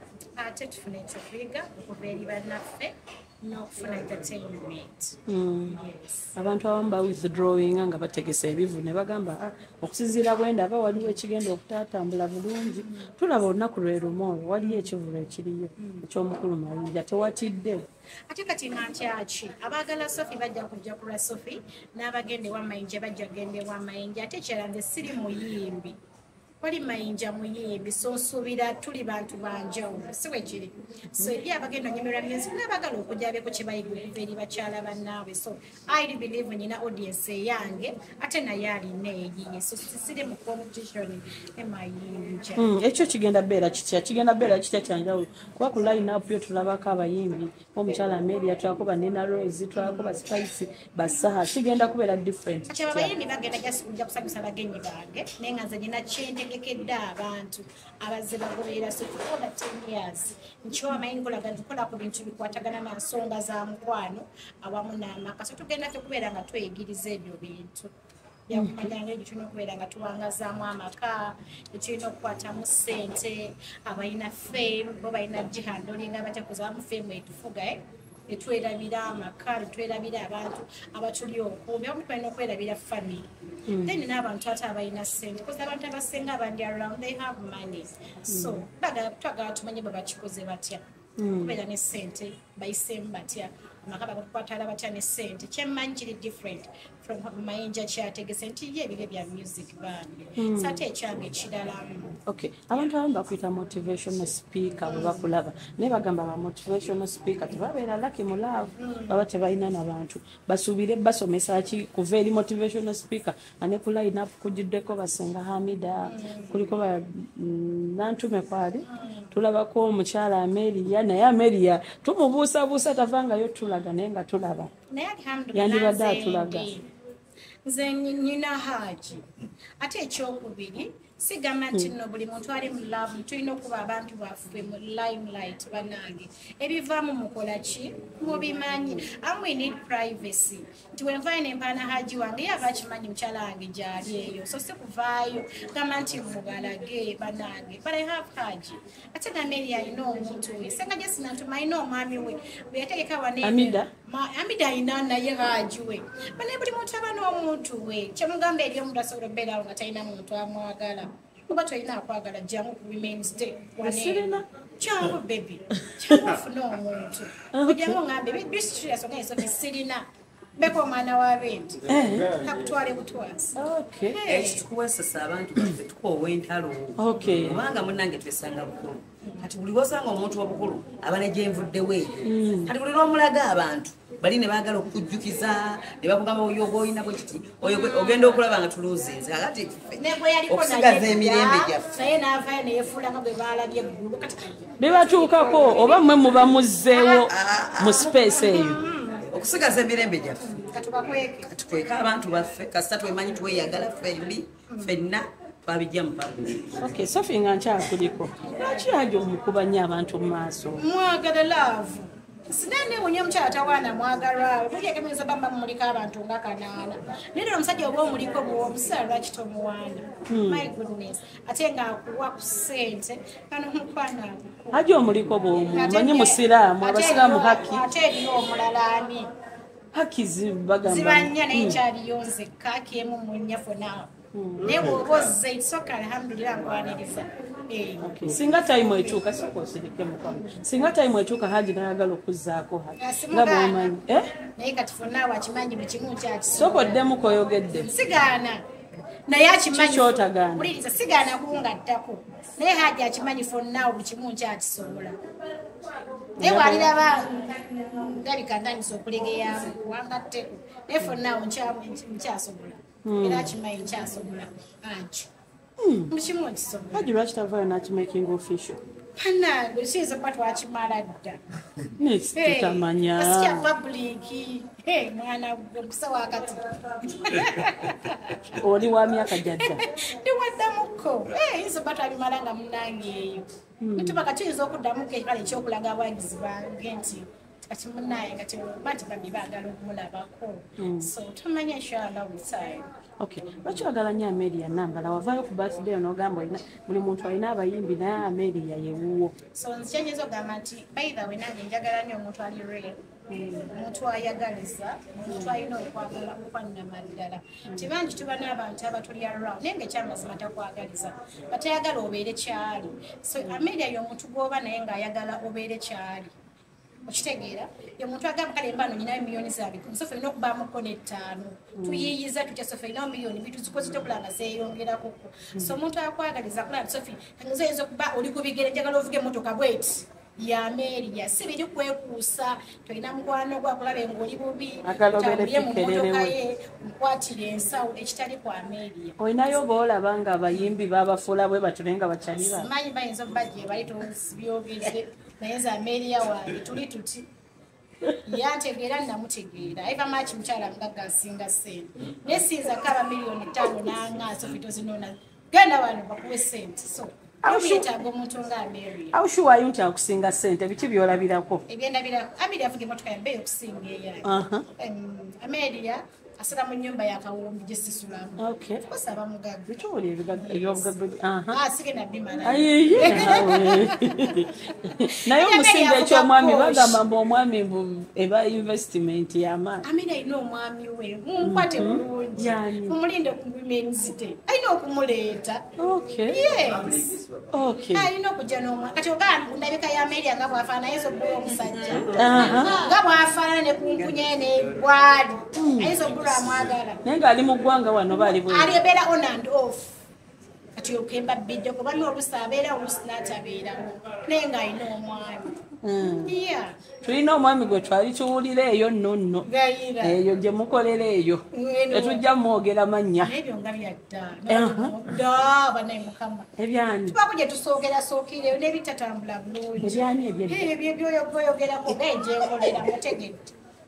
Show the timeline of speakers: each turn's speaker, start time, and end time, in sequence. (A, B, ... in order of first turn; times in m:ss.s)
0:00.4-0:05.2 A
0:05.3-0:05.8 B
0:05.7-0:06.4 A
0:06.4-0:17.8 B
0:10.9-0:11.2 A
0:12.7-0:13.1 A
0:14.6-0:14.9 A
0:15.8-0:16.0 A
0:18.3-0:26.0 A
0:26.6-0:42.7 A
0:42.6-0:53.1 B
0:49.8-0:50.1 A
0:52.7-1:07.9 A
1:08.5-1:23.3 A
1:08.5-1:08.9 B
1:23.7-1:24.0 B
1:23.8-1:42.2 A
1:28.3-1:28.6 B
1:31.2-1:31.6 B
1:40.4-1:40.8 B
1:42.3-2:04.7 B
1:44.9-1:45.2 A
1:48.8-1:49.2 A
1:56.0-1:56.7 A
1:58.8-1:59.4 A
2:04.9-2:06.9 A
2:05.5-2:06.7 B
2:07.7-2:09.3 A
2:09.8-2:50.0 A
2:33.4-2:33.9 B
2:43.8-2:44.4 B
2:47.5-2:48.0 B
2:50.6-2:54.7 A
2:51.9-2:52.3 B
2:53.6-2:54.2 B
2:54.2-3:11.9 C
2:57.0-2:57.7 B
3:02.2-3:02.8 B
3:07.6-3:08.4 A
3:10.0-3:17.3 A
3:14.8-3:18.8 B
3:17.3-3:18.1 C
3:17.8-3:19.3 A
3:19.3-3:20.6 C
3:20.4-3:21.5 A
3:21.5-3:26.9 C
3:24.7-3:25.0 A
3:26.8-3:30.8 B
3:28.5-3:28.9 A
3:30.8-3:44.9 A
3:40.3-3:40.7 B
3:44.7-3:47.8 B
3:45.7-3:49.3 A
3:49.9-3:51.8 B
3:50.8-3:58.4 A
3:54.3-3:55.0 B
3:58.0-4:04.2 B
4:00.2-4:00.8 A
4:03.0-4:07.1 A
4:06.6-4:07.9 B
4:07.8-4:08.6 A
4:09.3-4:15.2 A
4:09.7-4:10.7 B
4:16.4-4:25.3 A
4:16.4-4:17.0 B
4:23.0-4:23.5 B
4:25.8-4:26.1 B
4:26.1-4:27.1 A
4:26.9-4:28.8 B
4:29.2-4:31.4 A
4:32.0-4:33.7 B
4:32.3-4:38.6 A
4:38.6-4:39.8 B
4:39.4-4:52.9 A
4:43.8-4:44.2 B
4:50.8-4:51.1 B
4:53.2-4:59.3 B
4:59.5-5:03.0 A
5:03.3-5:03.7 B
5:03.7-5:16.3 A
5:05.3-5:05.6 B
5:17.1-5:39.6 A
5:21.8-5:22.2 B
5:34.8-5:36.4 B
5:39.2-5:42.7 B
5:42.4-5:47.3 A
5:48.2-5:59.2 A
5:57.4-5:57.9 B
5:59.1-6:01.6 B
6:01.7-6:10.9 A
6:04.3-6:04.7 B
6:08.4-6:08.8 B
6:09.7-6:11.6 B
6:11.5-6:17.0 A
6:12.4-6:19.8 B
6:19.8-6:25.6 A
6:21.4-6:23.0 B
6:25.8-6:26.5 B
6:26.3-6:27.2 A
6:27.5-6:28.1 B
6:27.9-6:37.0 A
6:32.1-6:32.8 B
6:35.6-6:36.0 B
6:37.0-6:38.8 B
6:38.5-6:40.0 A
6:40.8-6:46.9 A
6:45.8-6:46.4 B
6:47.0-6:49.5 B
6:49.4-6:50.2 A
6:50.0-6:53.3 B
6:51.5-6:52.2 A
6:53.2-6:56.5 A
6:54.5-6:55.2 B
6:56.6-6:57.2 B
6:57.1-7:03.4 A
6:59.8-7:00.7 B